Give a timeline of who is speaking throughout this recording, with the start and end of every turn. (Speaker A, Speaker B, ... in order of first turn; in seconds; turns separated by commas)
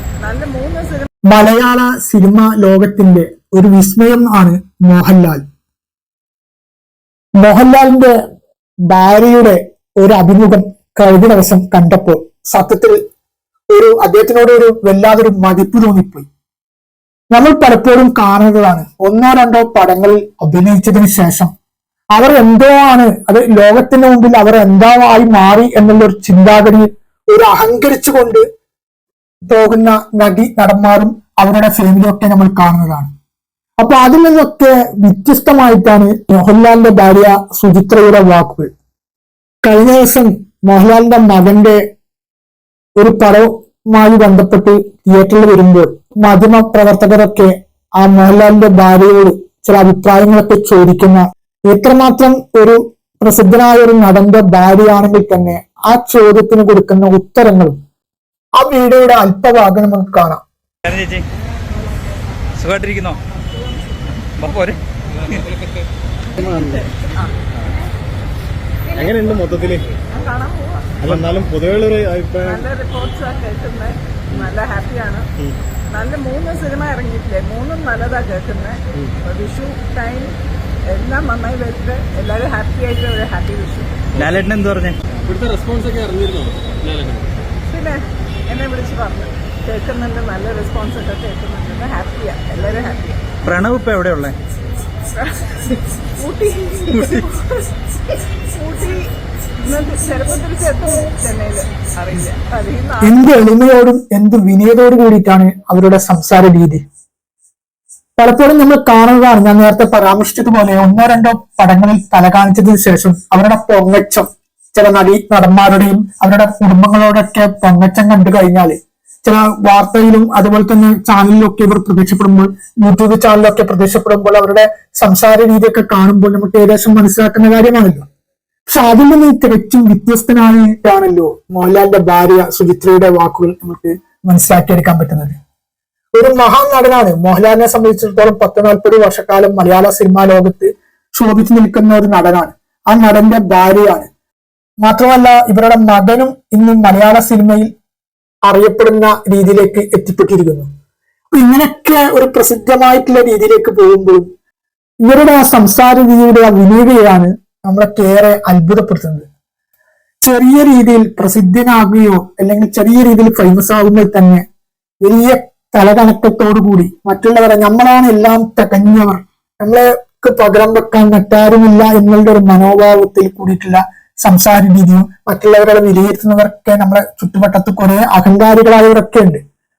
Speaker A: 0.2-1.1, Speaker B: 1.3-5.5, Speaker B: 7.4-8.2, Speaker B: 8.9-13.0, Speaker B: 13.7-16.3, Speaker B: 17.3-21.5, Speaker B: 22.1-28.4, Speaker B: 29.4-33.1, Speaker B: 33.8-38.7, Speaker B: 39.6-41.8, Speaker B: 43.0-57.8, Speaker B: 58.6-60.4, Speaker C: 60.8-61.2, Speaker C: 62.6-63.2, Speaker C: 64.4-64.8, Speaker D: 66.4-66.9, Speaker A: 67.0-67.3, Speaker D: 68.9-69.9, Speaker A: 70.1-70.9, Speaker D: 71.0-72.6, Speaker A: 72.4-75.3, Speaker A: 75.9-84.0, Speaker D: 84.1-84.4, Speaker C: 84.2-85.0, Speaker D: 85.1-87.3, Speaker A: 87.7-93.2, Speaker C: 93.4-94.3, Speaker A: 95.2-95.6, Speaker A: 96.2-97.7, Speaker A: 98.5-103.2, Speaker B: 103.0-106.8, Speaker B: 108.2-128.1, Speaker B: 128.7-135.4, Speaker B: 136.2-144.1, Speaker B: 144.8-147.7, Speaker B: 148.5-150.7, Speaker B: 151.3-154.3, Speaker B: 155.0-159.2, Speaker B: 160.2-164.4, Speaker B: 165.0-179.4